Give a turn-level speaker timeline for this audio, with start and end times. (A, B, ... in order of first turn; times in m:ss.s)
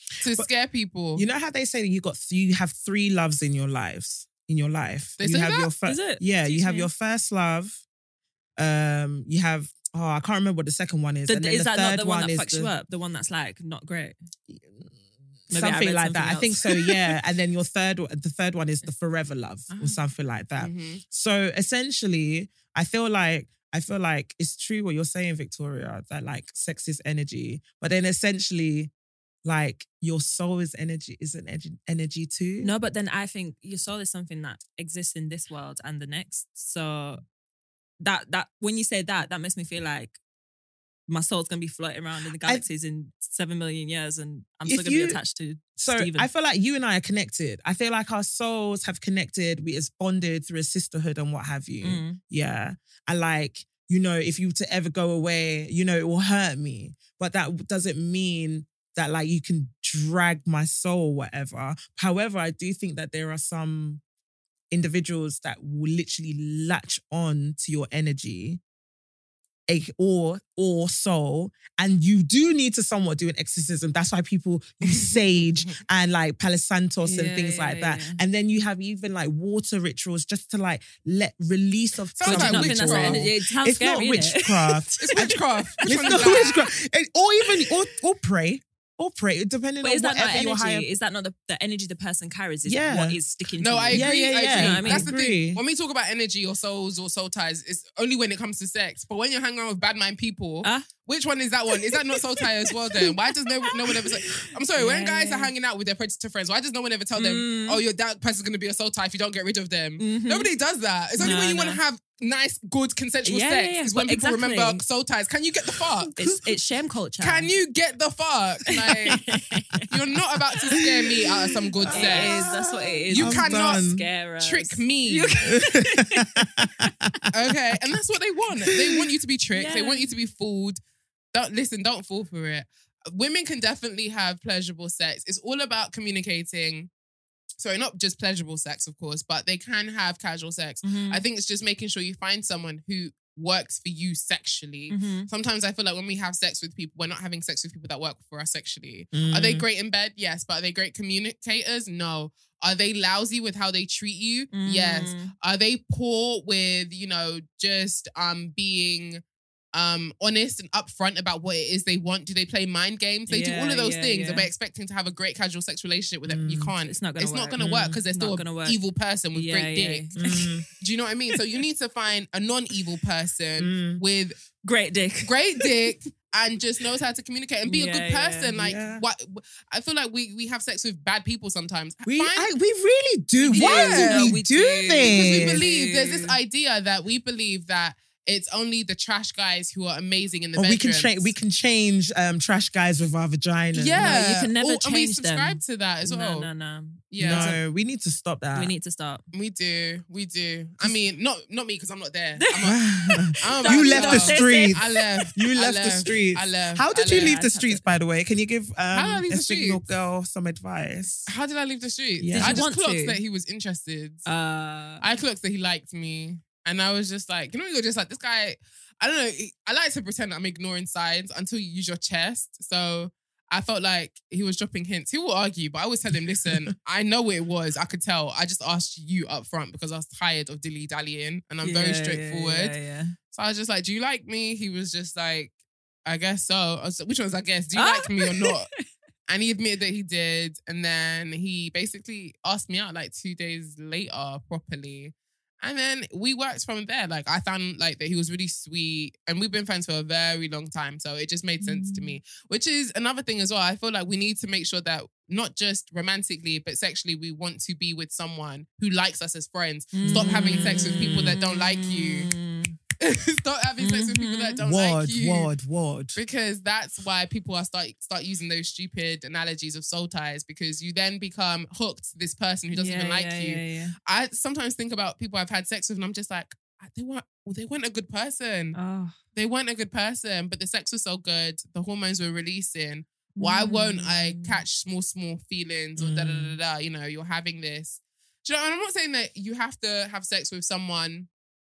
0:00.2-0:01.3 A
0:01.1-0:07.8 B
0:05.2-0:05.7 A
0:05.8-0:06.9 C
0:08.6-0:12.7 B
0:11.3-0:14.2 C
0:14.5-0:14.9 B
0:15.5-0:17.2 C
0:15.5-0:28.9 B
0:20.6-0:21.0 A
0:29.4-0:32.7 B
0:32.6-0:37.2 C
0:38.0-0:40.2 C
0:41.1-0:46.3 C
0:44.7-0:45.2 B
0:45.8-1:04.0 B
0:51.8-0:52.2 C
1:04.7-1:08.6 B
1:09.7-1:30.9 B
1:17.0-1:18.2 C
1:22.2-1:23.3 A
1:22.2-1:26.6 C
1:25.0-1:26.6 A
1:29.8-1:35.1 C
1:32.6-1:33.2 B
1:33.6-1:56.1 A
1:33.9-1:35.6 B
1:40.6-1:40.9 C
1:42.9-1:45.5 C
1:47.2-1:47.8 C
1:50.0-1:50.5 C
1:51.2-1:51.8 C
1:53.2-1:54.8 C
1:56.2-1:57.5 C
1:57.2-1:59.3 A
1:58.8-1:59.9 C
1:59.9-2:03.9 A
2:00.8-2:04.1 B
2:01.9-2:06.9 C
2:04.4-2:05.5 A
2:05.4-2:07.2 B
2:07.3-2:10.8 A
2:08.7-2:09.0 B
2:09.5-2:10.1 C
2:11.3-2:16.9 A
2:17.6-2:39.2 A
2:20.8-2:21.2 C
2:24.9-2:25.3 C
2:29.1-2:29.7 B
2:34.5-2:35.3 C
2:39.7-2:50.2 A
2:43.3-2:44.5 C
2:46.3-2:46.7 B
2:46.8-2:48.8 C
2:47.6-2:48.0 B
2:49.3-2:50.5 C
2:50.2-2:50.7 B
2:50.8-2:54.4 A
2:53.6-2:54.0 B
2:54.6-2:55.9 C
2:55.2-3:02.5 A
2:57.6-2:58.6 C
2:58.6-2:59.0 B
3:02.0-3:05.6 B
3:03.4-3:04.4 A
3:03.5-3:06.4 C
3:05.0-3:11.3 A
3:10.6-3:14.2 B
3:13.7-3:16.5 A
3:14.0-3:17.6 C
3:17.1-3:17.6 A
3:17.2-3:18.7 B
3:18.5-3:19.2 C
3:19.3-3:22.8 A
3:22.4-3:25.3 C
3:22.6-3:24.8 B
3:23.4-3:27.4 A
3:25.3-3:31.3 B
3:27.0-3:27.8 C
3:28.9-3:29.8 A
3:31.3-3:34.3 A
3:32.2-3:32.6 B
3:32.3-3:33.2 C
3:34.3-3:35.0 C
3:35.0-3:52.7 A
3:51.6-3:53.2 C
3:53.3-3:55.5 A
3:56.1-3:58.7 A
3:57.7-3:58.6 C
3:59.3-4:22.3 A
4:11.6-4:12.2 C
4:19.9-4:22.8 C
4:20.0-4:20.6 B
4:23.0-4:25.5 A
4:23.8-4:24.6 C
4:24.6-4:26.2 B
4:26.1-4:38.8 A
4:32.7-4:34.0 C
4:38.7-4:39.2 C
4:39.4-4:51.3 A
4:43.4-4:44.6 C
4:46.0-4:46.3 B